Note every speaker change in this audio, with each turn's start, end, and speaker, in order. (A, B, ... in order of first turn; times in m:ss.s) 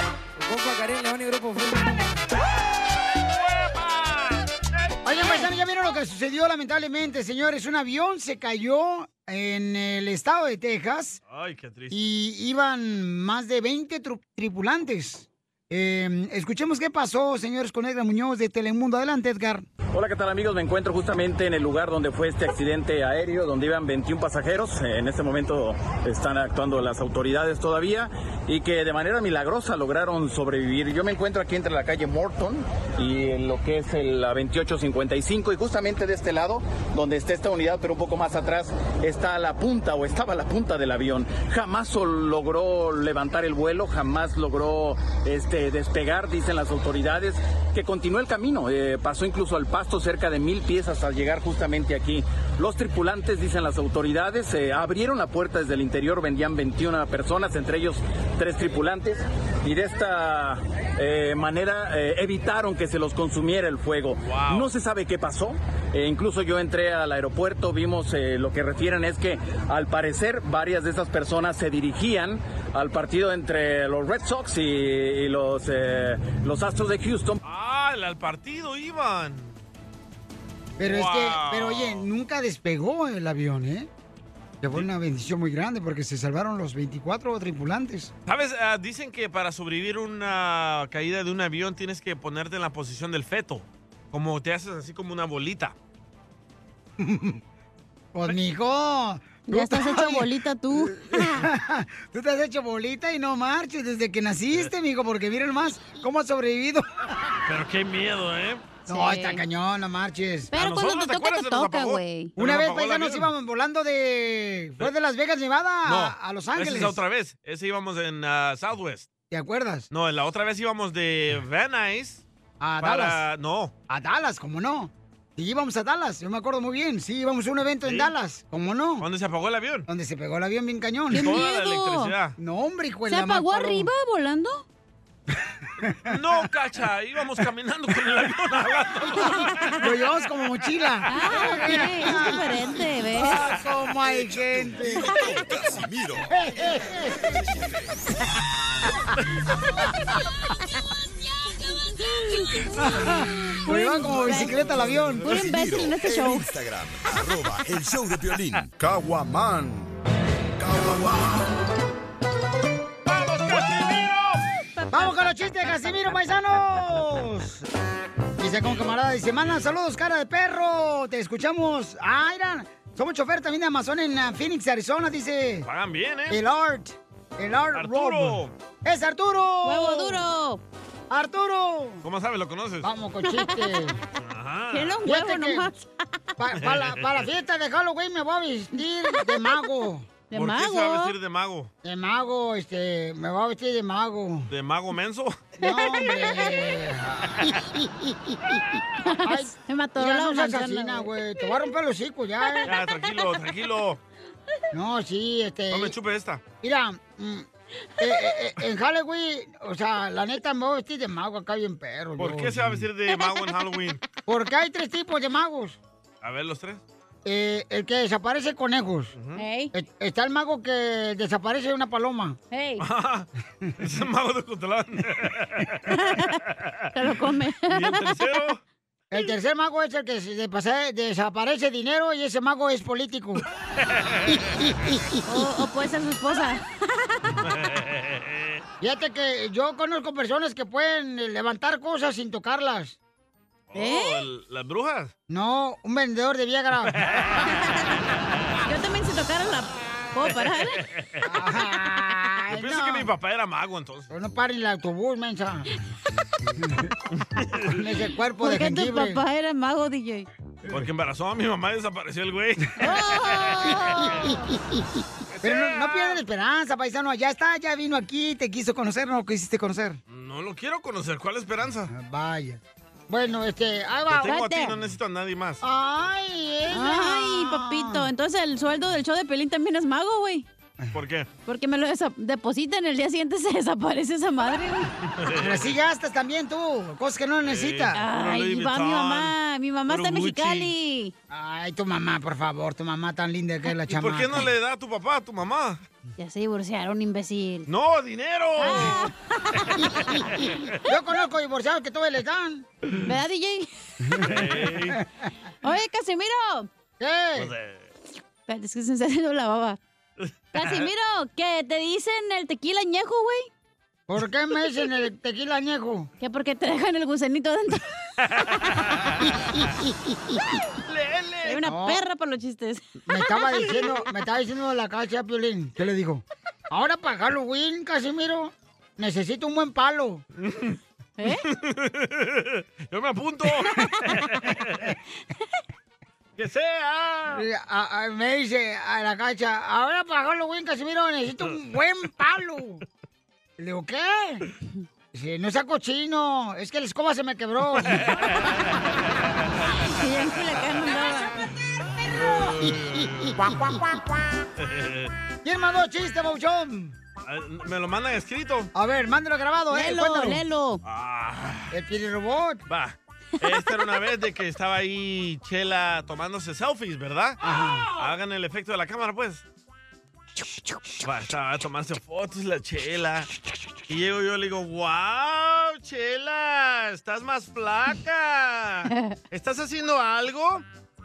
0:03.2-0:04.4 A
0:05.0-0:11.2 B
0:11.3-0:12.0 A
0:11.9-0:19.6 B
0:19.9-1:17.4 C
1:04.2-1:04.7 A
1:17.4-1:19.6 A
1:20.8-1:23.9 B
1:20.8-1:22.1 A
1:24.6-1:28.1 B
1:28.3-1:35.7 A
1:37.0-1:37.4 B
1:38.1-1:46.8 B
1:39.5-1:41.4 D
1:47.4-1:48.7 A
1:48.9-1:50.5 B
1:48.9-1:49.4 D
1:50.5-1:52.3 D
1:50.5-1:53.3 A
1:52.4-1:57.0 B
1:55.8-1:59.1 A
1:59.3-1:59.9 B
1:59.9-2:02.2 A
2:02.6-2:03.2 B
2:02.8-2:03.7 A
2:03.9-2:09.0 B
2:09.0-2:09.9 A
2:09.9-2:11.3 B
2:11.1-2:12.1 D
2:11.1-2:12.4 A
2:12.4-2:13.9 B
2:13.1-2:14.6 D
2:15.8-2:16.1 B
2:16.0-2:19.5 A
2:19.3-2:19.7 D
2:19.8-2:25.2 B
2:21.1-2:23.4 D
2:24.1-2:26.3 E
2:26.3-2:27.6 B
2:32.7-2:35.3 B
2:33.5-2:34.6 D
2:34.7-2:35.1 A
2:35.2-2:36.4 D
2:35.2-2:38.7 E
2:40.6-2:41.0 E
2:43.1-2:44.4 A
2:44.8-2:45.2 D
2:44.9-2:47.6 B
2:48.4-2:55.7 B
2:55.6-2:56.4 A
2:56.3-3:00.2 B
2:57.7-2:58.5 A
2:59.6-3:00.6 D
3:01.1-3:02.0 B
3:02.0-3:02.9 A
3:02.8-3:04.0 B
3:03.2-3:03.8 D
3:04.2-3:05.0 A
3:04.7-3:05.9 D
3:05.0-3:05.7 B
3:06.4-3:10.1 B
3:06.6-3:07.2 A
3:09.1-3:09.4 D
3:10.3-3:11.1 D
3:10.3-3:11.7 A
3:11.8-3:14.5 B
3:14.5-3:15.4 A
3:15.6-3:18.6 B
3:15.6-3:16.6 D
3:19.0-3:21.1 D
3:19.2-3:22.7 B
3:22.6-3:24.0 A
3:24.7-3:25.9 B
3:25.7-3:26.4 A
3:26.6-3:27.5 B
3:28.0-3:32.6 B
3:32.2-3:34.0 A
3:34.3-3:35.8 B
3:36.2-3:36.8 A
3:37.2-3:39.1 B
3:39.1-3:39.4 A
3:39.4-3:39.7 D
3:39.7-3:42.4 B
3:42.5-3:42.8 D
3:42.8-3:43.3 A
3:43.8-3:45.9 A
3:45.9-3:46.3 D
3:46.9-3:48.2 D
3:47.7-3:48.6 A
3:49.1-3:53.4 B
3:53.8-3:54.7 A
3:54.6-3:55.2 B
3:55.3-3:57.3 D
3:57.4-3:58.6 A
3:58.8-4:03.0 B
4:03.7-4:05.1 A
4:03.7-4:04.2 D
4:05.3-4:07.0 B
4:07.0-4:07.5 A
4:08.6-4:10.8 D
4:10.2-4:11.0 A
4:11.2-4:13.1 B
4:12.5-4:14.1 A
4:14.1-4:15.7 B
4:16.6-4:16.9 B
4:17.6-4:19.2 B
4:18.4-4:20.2 D
4:20.7-4:24.3 A
4:22.8-4:24.5 D
4:25.3-4:26.2 A
4:25.4-4:30.0 B
4:30.1-4:31.9 A
4:31.9-4:34.4 B
4:34.1-4:35.6 A
4:34.3-4:34.8 D
4:35.6-4:38.1 B
4:36.7-4:40.4 D
4:40.9-4:41.3 A
4:41.4-4:44.9 D
4:45.2-4:45.7 A
4:45.3-4:48.0 B
4:47.4-4:50.7 A
4:47.9-4:51.1 D
4:51.3-4:54.4 B
4:53.9-4:55.8 A
4:56.2-4:57.7 D
4:57.7-4:59.1 A
4:58.6-4:59.8 D
5:00.4-5:00.6 A
5:00.8-5:02.6 B
5:03.0-5:03.7 D
5:04.1-5:04.4 B
5:04.2-5:05.0 A
5:05.6-5:06.7 D
5:07.0-5:07.5 B
5:07.4-5:07.9 A
5:08.5-5:09.8 D
5:10.2-5:10.9 A
5:10.5-5:13.5 D
5:14.1-5:16.1 B
5:16.2-5:17.8 D
5:20.8-5:21.7 A
5:21.4-5:24.0 D
5:21.6-5:22.0 B
5:23.1-5:30.2 B
5:30.4-5:34.8 A
5:31.2-5:31.4 D
5:33.7-5:34.2 D
5:36.4-5:37.4 A
5:37.3-5:42.8 B
5:43.6-5:44.4 B
5:45.1-5:48.1 B
5:47.8-5:48.8 A
5:49.8-5:51.5 D
5:52.0-5:53.7 A
5:54.6-5:55.1 A
5:55.4-5:56.9 B
5:57.2-5:58.7 A
5:58.7-6:00.4 B
5:59.7-6:00.8 D
6:00.8-6:01.7 A
6:01.7-6:02.6 B
6:02.7-6:07.4 A
6:07.4-6:07.9 B
6:08.0-6:09.4 A
6:11.0-6:13.3 A
6:13.9-6:20.6 A